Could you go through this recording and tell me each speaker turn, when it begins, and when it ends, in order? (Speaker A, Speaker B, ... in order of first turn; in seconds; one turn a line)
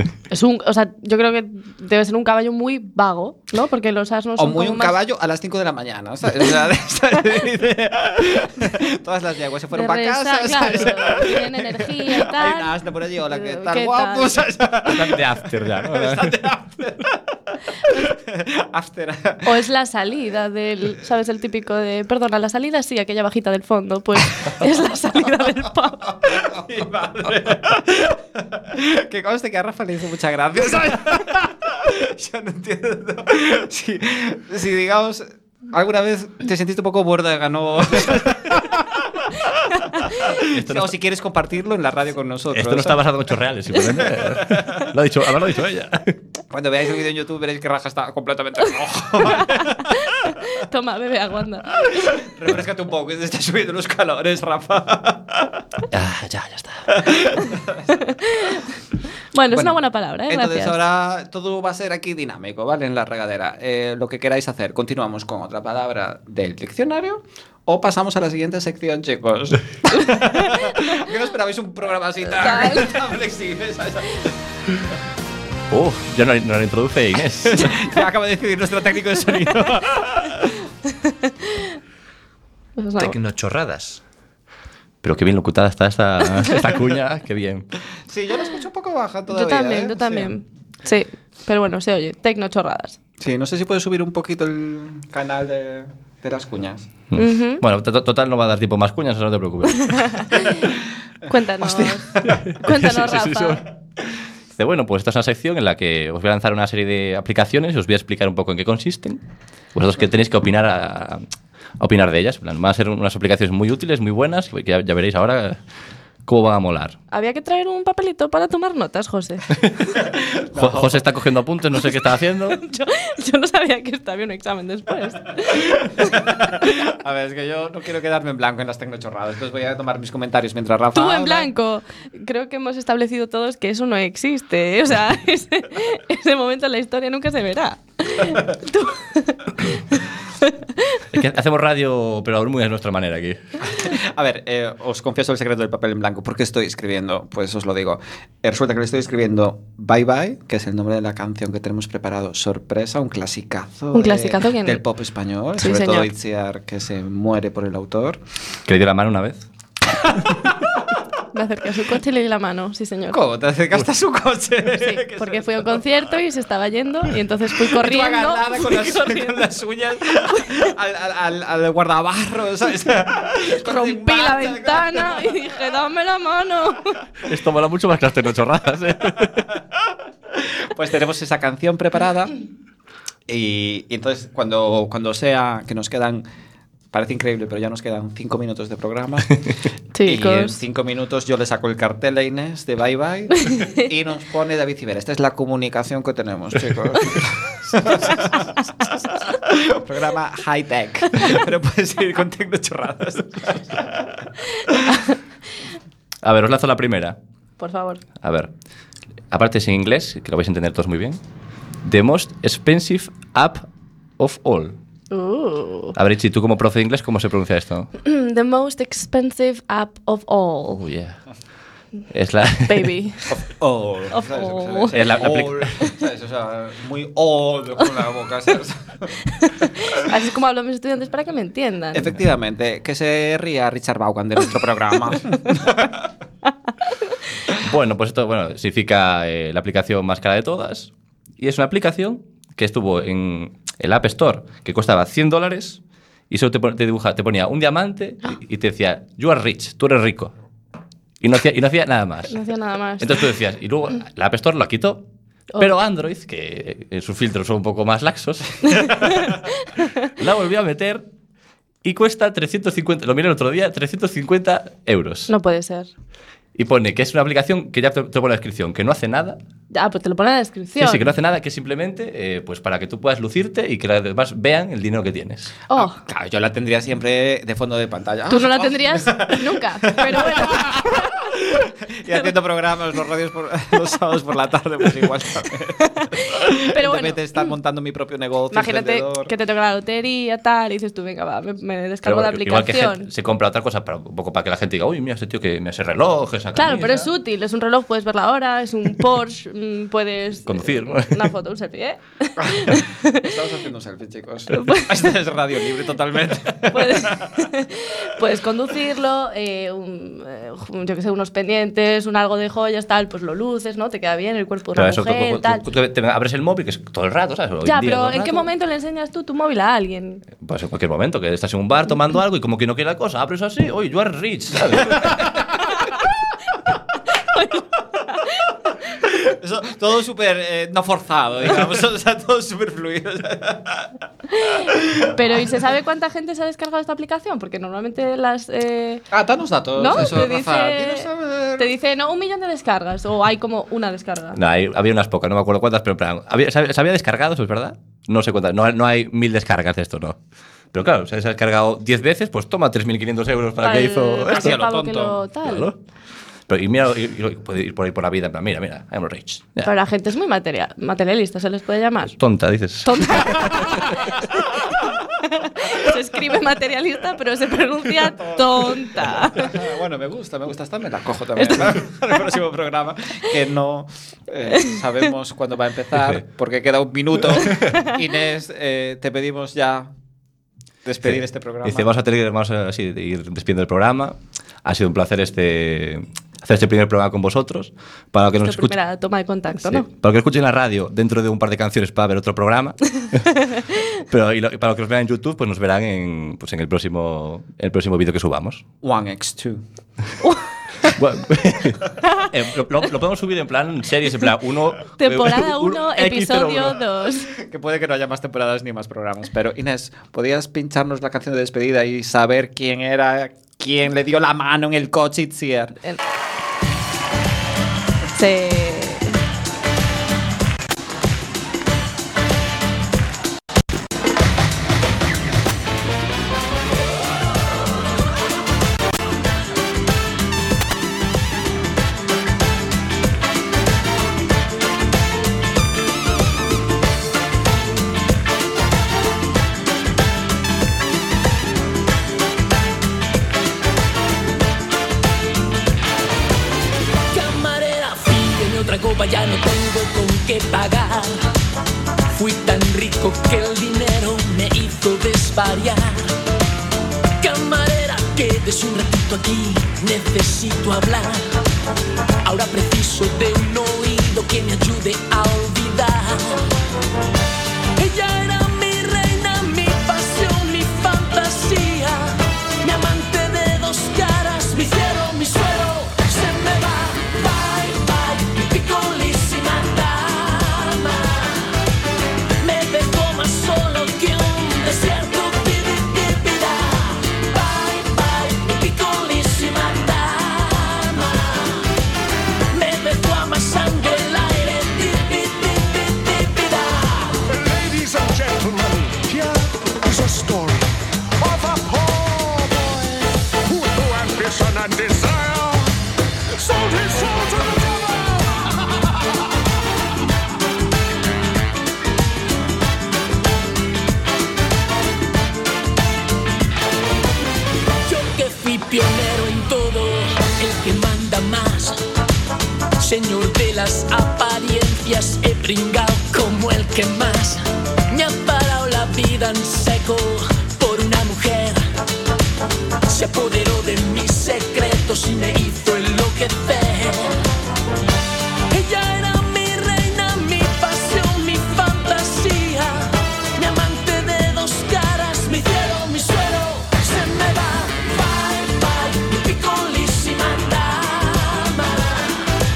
Speaker A: 0.3-5.0
Speaker B: 4.4-19.5
Speaker A: 9.7-14.4
Speaker C: 14.8-16.4
Speaker A: 19.4-26.2
Speaker B: 26.2-39.0
Speaker B: 40.1-43.1
Speaker C: 40.5-40.9
Speaker C: 42.5-46.1
Speaker B: 44.3-44.9
Speaker B: 46.5-49.9
Speaker A: 49.4-52.2
Speaker B: 52.1-55.6
Speaker C: 55.9-57.0
Speaker B: 56.9-58.0
Speaker A: 58.0-58.6
Speaker A: 59.3-60.8
Speaker B: 59.5-59.8
Speaker B: 60.3-74.3
Speaker A: 72.3-73.0
Speaker C: 75.7-77.8
Speaker B: 77.5-80.5
Speaker A: 81.3-81.7
Speaker A: 82.8-83.1
Speaker C: 83.0-84.0
Speaker C: 85.0-87.7
Speaker B: 88.1-90.3
Speaker A: 89.3-93.0
Speaker B: 93.2-96.9
Speaker C: 97.1-100.3
Speaker A: 97.2-97.6
Speaker A: 99.9-100.7
Speaker A: 101.3-103.6
Speaker B: 101.6-102.6
Speaker C: 102.3-103.6
Speaker C: 104.5-109.2
Speaker C: 109.7-111.2
Speaker C: 111.8-115.6
Speaker C: 116.2-117.0
Speaker A: 117.1-119.6
Speaker B: 120.0-121.0
Speaker C: 120.5-122.6
Speaker A: 122.5-126.7
Speaker B: 125.8-131.5
Speaker A: 130.9-141.0
Speaker C: 141.1-143.4
Speaker B: 143.6-158.2
Speaker A: 153.9-154.8
Speaker A: 155.6-156.1
Speaker C: 158.7-159.4
Speaker B: 160.0-160.6
Speaker A: 161.3-163.2
Speaker B: 163.1-165.8
Speaker A: 164.8-169.4
Speaker B: 167.6-175.3
Speaker A: 173.5-177.0
Speaker C: 177.2-179.5
Speaker B: 180.4-182.3
Speaker B: 183.3-186.2
Speaker B: 186.9-189.5
Speaker A: 189.9-190.6
Speaker B: 190.0-204.8
Speaker C: 206.2-207.2
Speaker A: 207.6-208.0
Speaker C: 208.2-208.5
Speaker C: 209.3-211.2
Speaker C: 211.8-213.7
Speaker C: 214.2-214.8
Speaker A: 215.1-215.9
Speaker C: 215.9-217.9
Speaker A: 218.0-220.8
Speaker C: 220.7-221.2
Speaker C: 222.1-222.9
Speaker A: 222.7-223.3
Speaker B: 223.3-229.2
Speaker A: 224.1-225.0
Speaker C: 224.9-225.7
Speaker A: 230.0-232.1
Speaker B: 231.9-236.0
Speaker C: 237.6-250.3
Speaker C: 251.2-252.4
Speaker A: 252.3-253.2
Speaker C: 253.0-255.1
Speaker C: 255.6-259.3
Speaker A: 259.3-260.1
Speaker C: 260.2-261.0
Speaker C: 261.8-265.3
Speaker A: 265.3-265.9
Speaker C: 266.5-269.4
Speaker A: 269.7-271.1
Speaker C: 270.8-275.5
Speaker B: 275.7-289.3
Speaker A: 278.3-281.2
Speaker A: 286.0-287.5
Speaker A: 288.5-293.1
Speaker C: 292.0-297.1
Speaker A: 296.6-303.2
Speaker C: 300.4-301.3
Speaker B: 302.4-307.3
Speaker A: 304.5-305.1
Speaker A: 306.7-315.6
Speaker C: 314.7-318.5
Speaker A: 317.6-320.2
Speaker C: 320.4-325.2
Speaker A: 327.2-328.3
Speaker B: 329.2-333.9
Speaker A: 334.4-339.0
Speaker B: 339.1-341.7
Speaker A: 339.8-344.4
Speaker C: 344.3-350.2
Speaker C: 350.7-354.6
Speaker A: 353.6-355.7
Speaker B: 354.3-355.2
Speaker C: 355.4-355.8
Speaker C: 356.5-359.7
Speaker A: 359.6-362.1
Speaker C: 362.0-363.8
Speaker A: 362.8-364.4
Speaker A: 365.3-369.6
Speaker B: 368.2-379.9
Speaker A: 371.4-371.8
Speaker C: 375.9-376.2
Speaker C: 377.4-377.8
Speaker B: 380.8-381.9
Speaker C: 381.0-388.8
Speaker A: 388.4-389.9
Speaker C: 389.6-393.2
Speaker C: 394.0-398.6
Speaker B: 398.8-399.6
Speaker C: 400.9-406.8
Speaker A: 405.0-407.3
Speaker B: 407.4-415.7
Speaker A: 418.1-419.2
Speaker D: 447.1-451.3
Speaker D: 452.1-456.2
Speaker D: 457.2-461.4
Speaker D: 462.2-466.4
Speaker D: 467.8-481.6
Speaker D: 482.4-491.7
Speaker D: 492.5-497.2
Speaker E: 497.3-505.8
Speaker E: 506.3-508.9
Speaker D: 517.8-521.8
Speaker D: 522.8-531.7
Speaker D: 532.9-537.2
Speaker D: 538.5-552.3